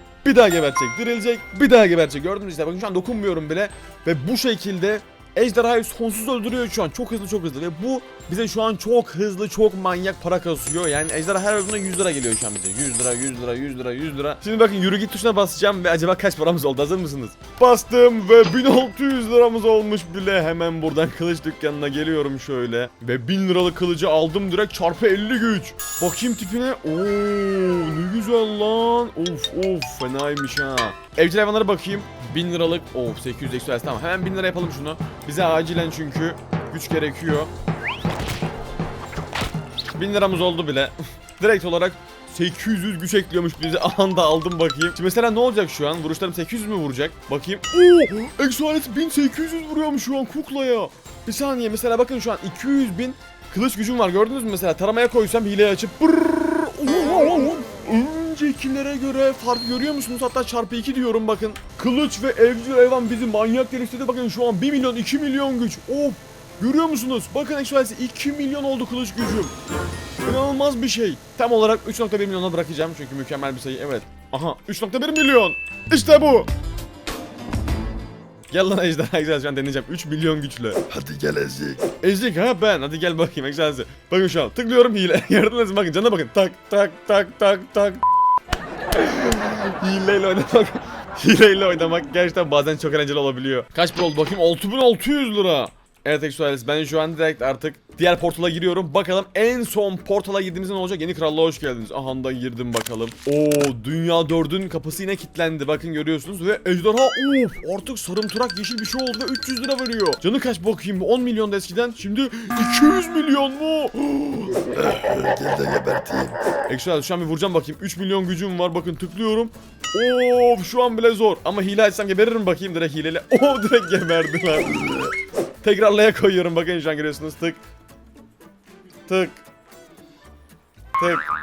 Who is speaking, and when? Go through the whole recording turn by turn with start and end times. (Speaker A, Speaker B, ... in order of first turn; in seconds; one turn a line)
Speaker A: 0.2-37.5
Speaker A: 39.9-69.5
Speaker A: 70.2-76.5
Speaker A: 78.5-80.8
Speaker B: 80.9-81.9
Speaker A: 82.0-88.0
Speaker A: 88.9-114.8
Speaker B: 114.7-116.3
Speaker A: 116.7-124.8
Speaker B: 124.7-125.1
Speaker A: 125.6-127.6
Speaker A: 129.1-129.4
Speaker A: 131.0-131.2